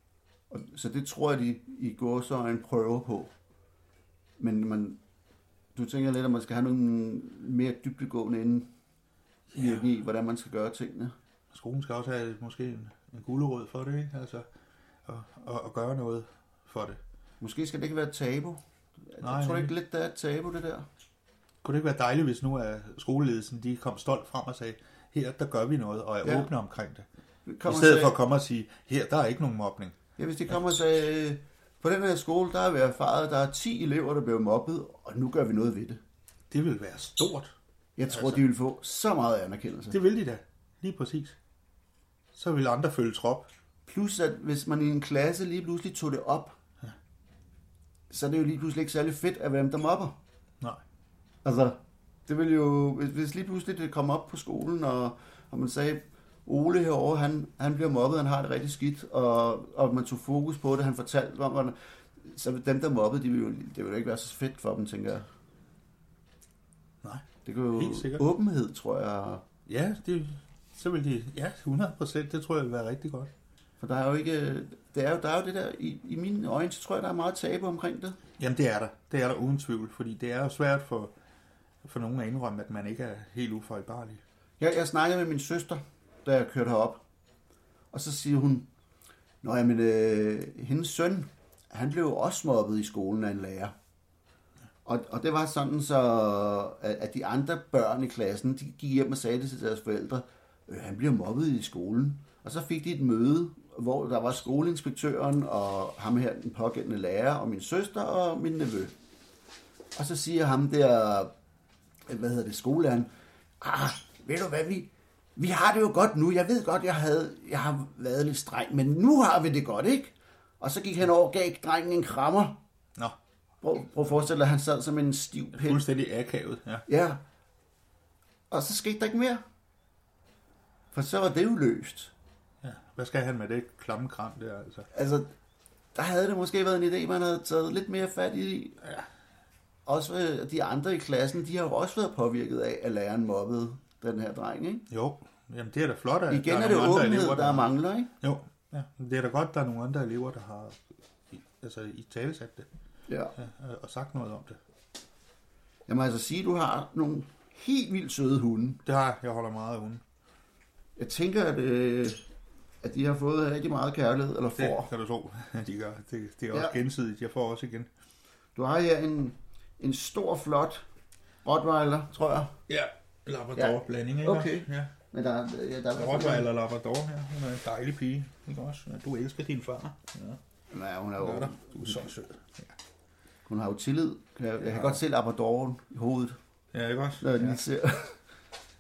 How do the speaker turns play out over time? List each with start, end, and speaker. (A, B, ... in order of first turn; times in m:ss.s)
0:00.5-0:03.3 A
0:04.4-0:05.0 A
0:05.7-0:08.7 A
0:09.5-0:09.8 B
0:09.5-0:11.1 A
0:11.5-0:14.5 B
0:15.0-0:17.0 B
0:17.4-0:20.9 A
0:19.2-0:19.7 B
0:21.6-0:27.1 B
0:26.2-0:26.5 A
0:27.4-0:28.2 A
0:27.6-0:30.0 B
0:30.2-0:36.0 A
0:36.5-0:37.5 B
0:38.0-0:40.0 A
0:38.1-0:38.4 B
0:39.9-0:41.4 B
0:42.3-0:43.5 B
0:43.9-0:46.6 A
0:48.1-0:50.2 A
0:51.4-1:05.2 A
1:07.0-1:08.2 B
1:07.4-1:09.4 A
1:09.7-1:13.3 B
1:13.8-1:18.2 A
1:18.4-1:21.1 B
1:21.8-1:24.2 B
1:24.6-1:27.0 A
1:27.9-1:28.7 A
1:29.4-1:33.7 A
1:34.8-1:48.9 A
1:50.0-1:51.3 A
1:52.1-1:53.1 A
1:53.6-2:02.6 A
2:03.6-2:05.8 A
2:05.6-2:06.9 B
2:06.9-2:07.2 A
2:08.5-2:09.4 A
2:10.9-2:12.1 A
2:12.6-2:14.9 B
2:14.9-2:15.3 A
2:15.9-2:18.8 A
2:19.9-2:24.9 A
2:24.9-2:32.7 B
2:26.3-2:28.1 A
2:33.1-2:33.3 A
2:33.4-2:34.6 B
2:35.9-2:38.8 A
2:38.9-2:40.0 B
2:41.0-2:42.2 A
2:42.8-2:44.9 A
2:44.5-2:47.9 B
2:48.6-2:50.8 A
2:51.4-2:52.5 A
2:52.7-2:54.9 B
2:53.6-2:56.5 A
2:55.9-3:00.4 B
3:00.7-3:02.0 A
3:01.2-3:02.7 B
3:03.5-3:06.4 A
3:04.6-3:05.0 B
3:06.7-3:07.6 B
3:07.2-3:08.2 A